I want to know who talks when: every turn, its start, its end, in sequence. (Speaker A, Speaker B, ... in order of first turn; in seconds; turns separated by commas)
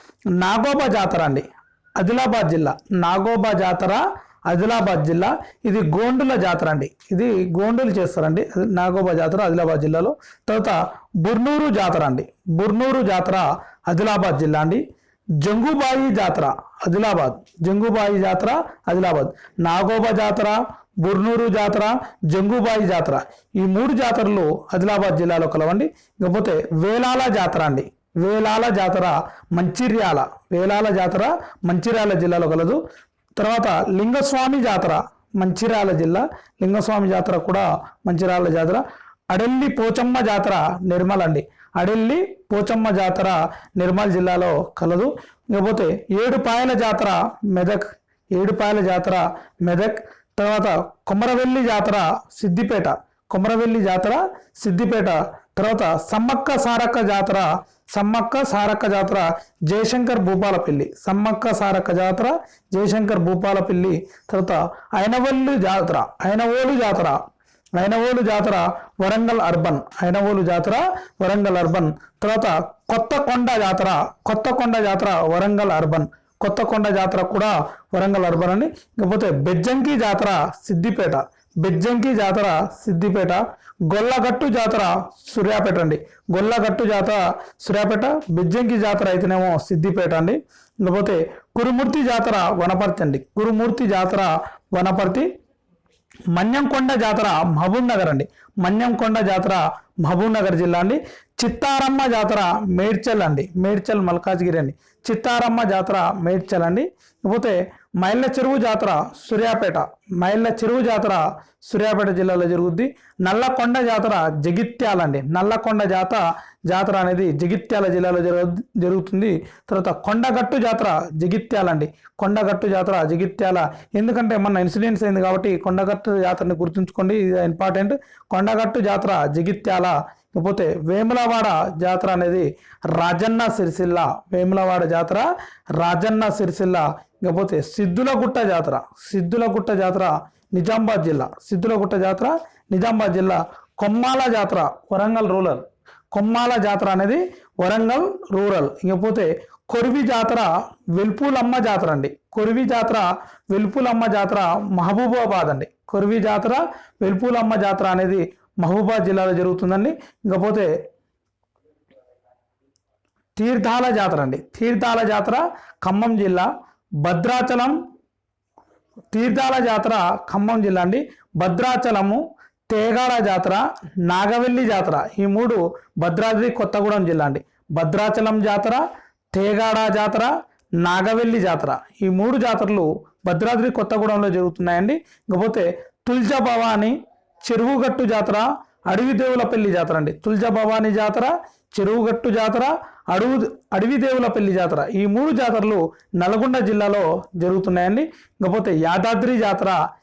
Speaker A: 0.4-1.4, Speaker A: 2.0-14.8, Speaker A: 15.4-32.8, Speaker A: 33.4-67.2, Speaker A: 67.8-95.3, Speaker A: 96.3-135.2, Speaker A: 135.8-160.7, Speaker A: 163.4-166.5, Speaker A: 167.0-167.8, Speaker A: 169.1-199.8